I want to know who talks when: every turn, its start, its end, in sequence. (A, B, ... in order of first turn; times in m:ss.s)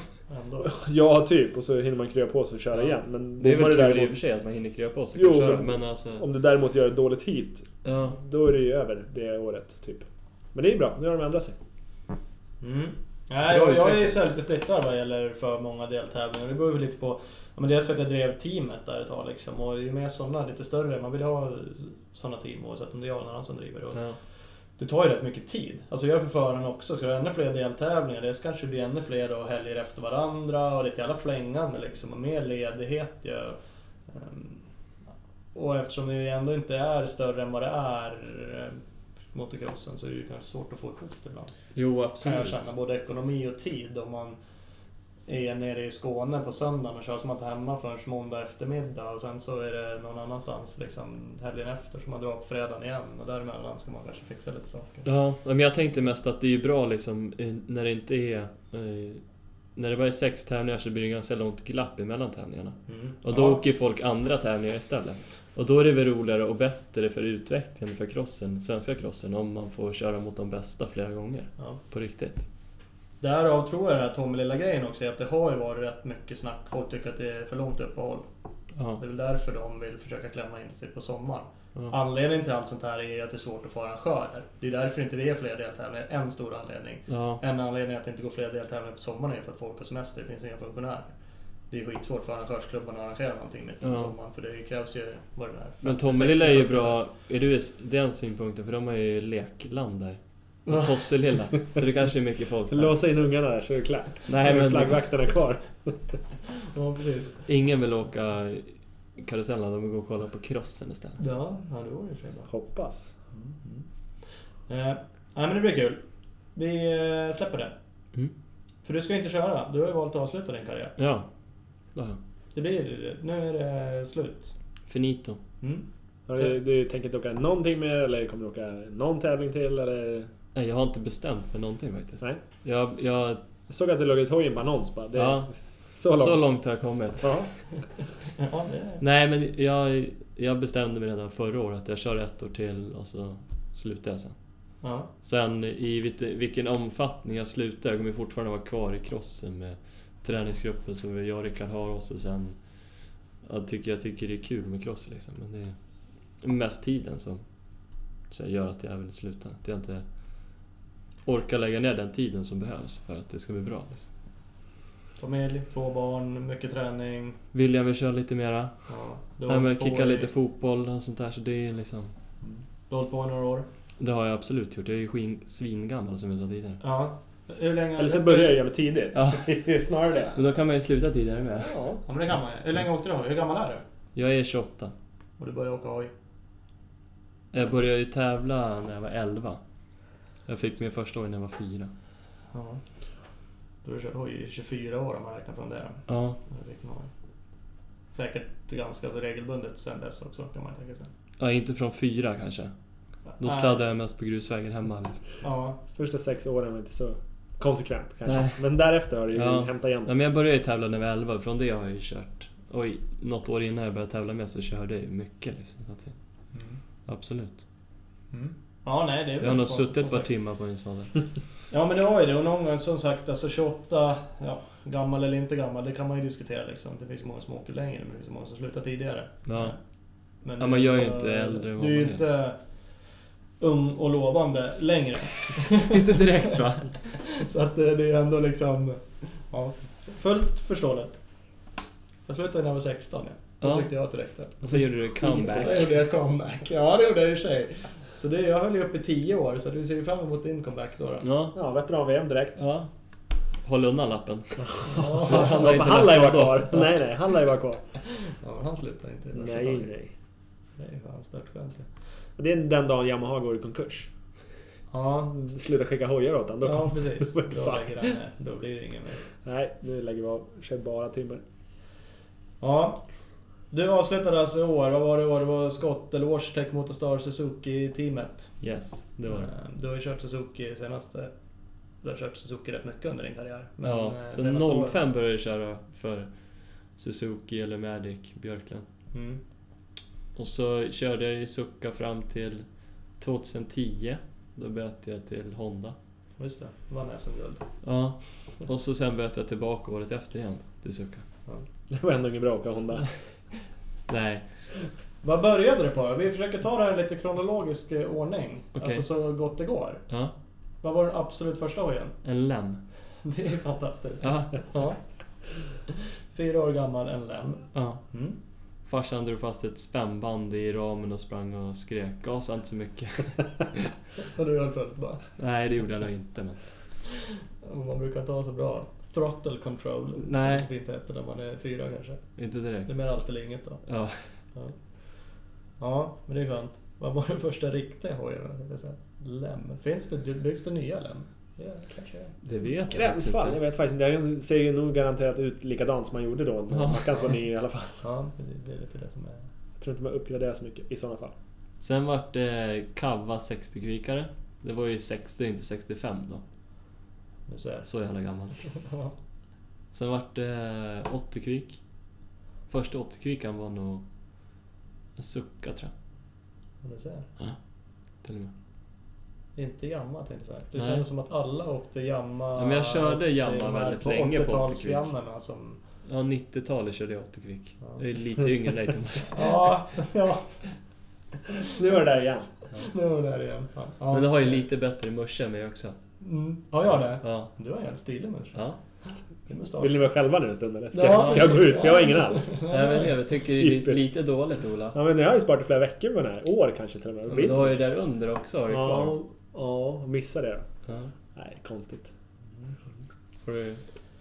0:00.3-0:00.7 A
0:00.6-0:04.2 B
0:03.4-0:06.2 C
0:05.1-0:11.6 B
0:07.8-0:08.2 C
0:12.6-0:24.0 A
0:13.4-0:14.2 C
0:23.9-0:24.2 C
0:24.8-0:33.6 A
0:34.1-0:34.6 A
0:35.5-0:38.8 A
0:39.3-0:41.5 A
0:41.7-0:42.6 C
0:42.2-0:44.4 A
0:45.3-0:55.0 A
0:55.0-0:59.2 C
0:59.8-1:12.5 C
1:02.9-1:03.6 A
1:13.2-1:18.2 A
1:18.7-1:19.0 C
1:19.0-1:31.1 A
1:27.1-1:27.4 C
1:31.7-1:37.0 A
1:33.8-1:34.1 C
1:35.8-1:43.0 C
1:40.6-1:41.1 A
1:42.7-1:46.2 B
1:44.3-1:45.0 C
1:46.6-1:47.4 A
1:47.5-1:51.2 C
1:51.2-1:52.5 A
1:52.5-1:53.1 B
1:53.3-1:53.8 A
1:54.7-1:56.0 A
1:56.5-1:57.7 A
1:58.8-2:00.9 A
2:01.0-2:01.3 C
2:02.5-2:04.5 A
2:04.9-2:05.4 C
2:06.3-2:10.3 B
2:10.5-2:13.4 C
2:13.7-2:16.5 B
2:15.1-2:15.5 C
2:16.0-2:17.5 C
2:17.2-2:17.5 B
2:18.4-2:19.0 A
2:19.0-2:24.3 C
2:24.8-2:25.1 A
2:25.2-2:32.6 C
2:33.4-2:35.8 C
2:36.4-2:37.4 C
2:38.3-2:40.0 C
2:41.2-2:44.1 C
2:45.2-2:47.4 A
2:47.5-2:48.7 C
2:48.9-2:50.3 A
2:49.5-2:52.1 C
2:52.4-2:53.6 A
2:54.0-2:56.8 C
2:56.8-2:58.6 A
2:58.0-3:00.4 B
2:59.1-2:59.5 C
3:00.3-3:01.8 C
3:01.6-3:02.0 B
3:02.0-3:03.8 A
3:04.1-3:04.9 C
3:05.4-3:06.1 A
3:07.5-3:09.6 C
3:10.4-3:11.9 C
3:12.5-3:12.8 A
3:13.8-3:17.1 A
3:16.1-3:16.4 C
3:18.1-3:21.1 A
3:21.4-3:22.7 C
3:23.3-3:23.8 A
3:23.4-3:25.2 C
3:25.4-3:25.8 A
3:25.9-3:30.1 B
3:28.2-3:28.6 C
3:29.3-3:36.1 C
3:36.5-3:36.8 A
3:37.0-3:37.6 C
3:38.3-3:40.3 A
3:39.4-3:41.1 C
3:41.7-3:49.8 A
3:49.5-3:49.8 C
3:50.4-3:52.6 A
3:50.6-3:52.2 C
3:53.6-4:01.2 A
3:55.8-3:57.0 C
4:02.3-4:11.3 A
4:03.6-4:03.9 C
4:04.6-4:05.8 C
4:11.2-4:11.5 C
4:11.5-4:12.6 B
4:12.6-4:12.9 C
4:13.6-4:14.7 C
4:14.7-4:17.8 B
4:14.8-4:16.0 A
4:15.2-4:16.9 C
4:18.1-4:19.9 A
4:19.3-4:20.1 B
4:20.8-4:21.8 A
4:22.4-4:24.1 B
4:24.9-4:25.3 A
4:25.3-4:28.1 B
4:26.6-4:29.2 A
4:29.4-4:31.4 B
4:32.6-4:33.0 A
4:33.7-4:38.6 A
4:38.6-4:39.5 C
4:39.2-4:41.3 A
4:42.0-4:45.0 A
4:43.8-4:46.3 C
4:46.9-4:48.8 C
4:49.1-4:49.4 A
4:50.3-4:52.6 C
4:53.2-4:56.0 C
4:56.4-4:57.7 A
4:57.8-5:01.2 C
5:01.9-5:03.1 B
5:04.1-5:04.4 C
5:05.2-5:10.0 A
5:08.8-5:09.0 C
5:10.8-5:12.2 A
5:12.2-5:12.8 C
5:13.2-5:15.0 A
5:14.2-5:14.6 C
5:15.9-5:18.4 A
5:17.7-5:18.0 C
5:18.8-5:23.9 C
5:24.2-5:25.3 A
5:25.4-5:26.6 C
5:27.0-5:32.2 A
5:30.2-5:30.7 C
5:32.4-5:32.9 C
5:32.8-5:33.8 A
5:33.8-5:34.3 C
5:35.8-5:42.3 A
5:42.4-5:43.6 C
5:42.9-5:48.0 B
5:46.7-5:47.2 C
5:48.0-5:49.4 A
5:49.8-5:51.3 B
5:51.8-5:56.4 C
5:57.5-5:57.9 A
5:57.8-5:58.6 C
5:58.6-5:59.1 A
5:59.9-6:01.8 C
6:02.7-6:04.0 C
6:05.2-6:05.9 C
6:06.8-6:07.3 A
6:08.2-6:08.5 C
6:09.6-6:15.8 A
6:10.7-6:11.0 C
6:12.6-6:15.0 C
6:16.0-6:19.8 C
6:19.3-6:20.7 A
6:21.6-6:22.5 B
6:22.7-6:24.6 A
6:24.1-6:26.0 C
6:26.2-6:30.0 A
6:27.2-6:27.5 C
6:29.8-6:32.5 B
6:30.9-6:33.2 A
6:31.0-6:31.6 C
6:32.7-6:35.0 C
6:33.5-6:34.1 B
6:34.9-6:37.8 B
6:37.3-6:39.2 C
6:38.7-6:40.6 B
6:40.8-6:41.1 C
6:41.3-6:42.1 B
6:43.4-6:43.8 C